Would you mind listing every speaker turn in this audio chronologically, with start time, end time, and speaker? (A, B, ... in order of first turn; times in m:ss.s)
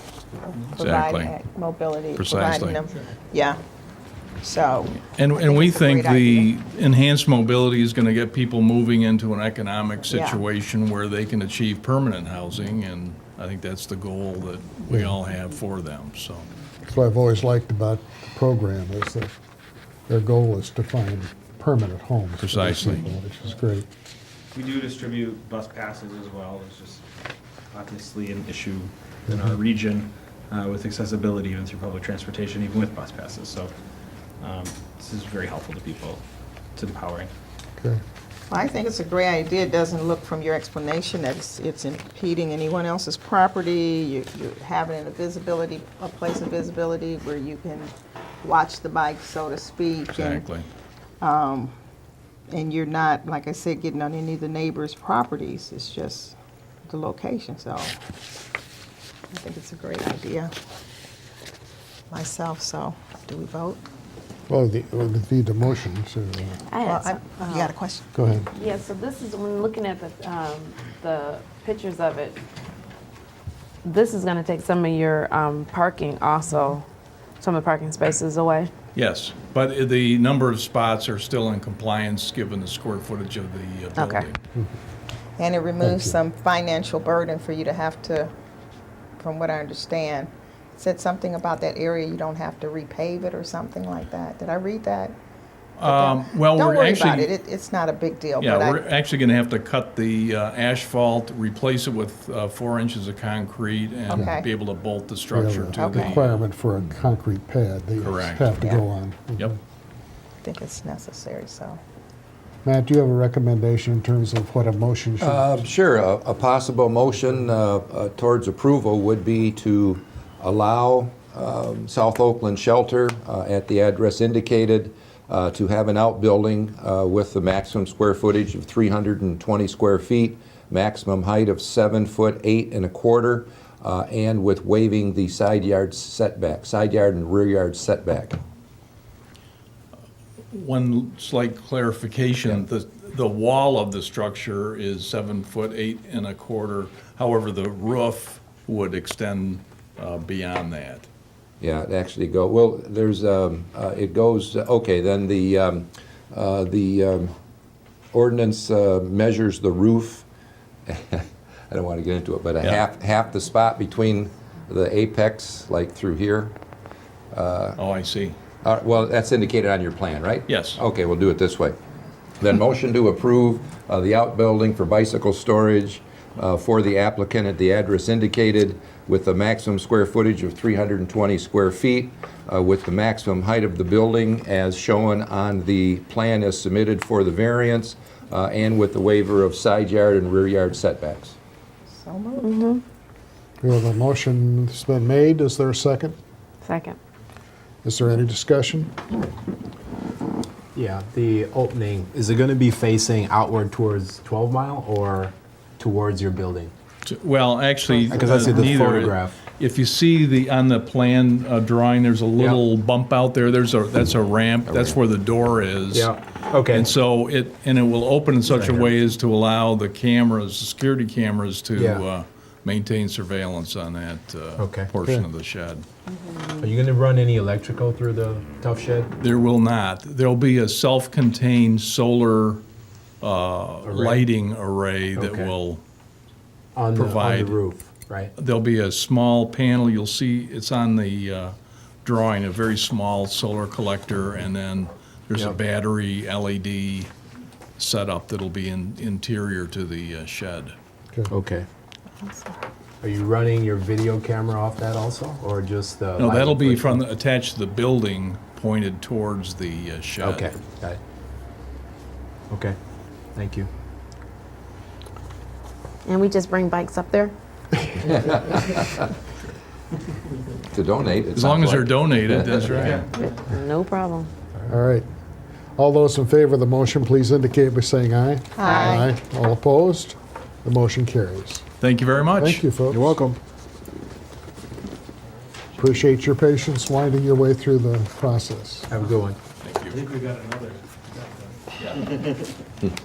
0:00.4-0:03.6 A
0:00.8-0:01.4 B
0:02.2-0:02.8 B
0:04.4-0:06.5 A
0:05.0-0:16.5 B
0:10.1-0:10.4 A
0:14.9-0:15.2 C
0:16.9-0:19.3 C
0:20.1-0:23.8 C
0:22.4-0:23.1 B
0:24.5-0:27.0 D
0:27.7-0:33.7 D
0:34.4-0:36.2 D
0:36.7-0:37.3 D
0:38.5-0:50.5 A
0:50.1-0:50.6 B
0:51.2-0:51.7 A
0:52.5-0:57.9 A
0:59.3-1:00.5 A
1:02.1-1:03.8 A
1:04.5-1:06.6 C
1:06.7-1:07.7 E
1:06.8-1:08.3 A
1:08.1-1:08.4 C
1:08.5-1:12.4 E
1:13.8-1:16.8 E
1:17.4-1:18.7 E
1:18.9-1:24.4 B
1:24.0-1:24.3 E
1:25.4-1:28.3 A
1:25.8-1:26.1 C
1:29.2-1:35.1 A
1:35.8-1:37.3 B
1:35.8-1:38.9 A
1:38.4-1:46.4 B
1:44.1-1:44.5 A
1:45.3-1:49.5 C
1:45.7-1:46.2 A
1:48.0-1:48.5 B
1:50.4-1:51.8 A
1:52.6-1:55.6 C
1:55.2-2:18.4 F
2:20.5-2:31.1 B
2:31.6-2:37.3 F
2:38.1-2:40.2 F
2:40.9-2:46.5 F
2:47.3-2:47.8 F
2:47.8-2:48.4 B
2:48.6-2:51.8 F
2:50.5-2:50.8 B
2:52.4-3:11.4 F
3:11.9-3:12.7 A
3:12.4-3:12.8 E
3:13.6-3:16.2 C
3:16.6-3:17.0 E
3:17.8-3:18.9 C
3:20.7-3:26.7 G
3:27.0-3:36.1 B
3:28.0-3:29.4 G
3:32.4-3:32.6 G
3:34.7-3:35.0 F
3:35.9-3:36.9 G
3:36.7-3:45.8 B
3:38.5-3:38.9 G
3:41.7-3:42.0 G
3:44.6-3:44.9 G
3:46.4-3:46.6 E
3:46.6-3:49.1 G
3:49.2-3:52.6 B
3:53.2-3:55.8 B
3:53.8-3:54.3 G
3:55.2-3:55.5 G
3:56.7-3:58.3 G
3:56.9-3:57.6 B
3:58.4-4:07.1 B
4:07.8-4:10.7 B
4:11.3-4:11.7 G
4:12.2-4:12.6 A
4:13.0-4:17.0 G
4:16.2-4:20.6 B
4:20.2-4:21.0 G
4:22.5-4:22.8 G
4:23.3-4:23.7 G
4:26.0-4:27.3 E
4:28.0-4:29.0 F
4:30.7-4:32.6 F
4:31.3-4:33.0 B
4:32.7-4:33.0 G
4:33.1-4:34.3 E
4:34.7-4:35.1 C
4:35.8-4:41.6 C
4:38.5-4:39.2 A
4:41.8-4:42.6 B
4:42.3-4:43.2 C
4:42.9-4:43.4 G
4:45.8-4:48.8 C
4:48.9-4:49.4 G
4:49.6-4:50.0 B
4:49.9-4:51.5 D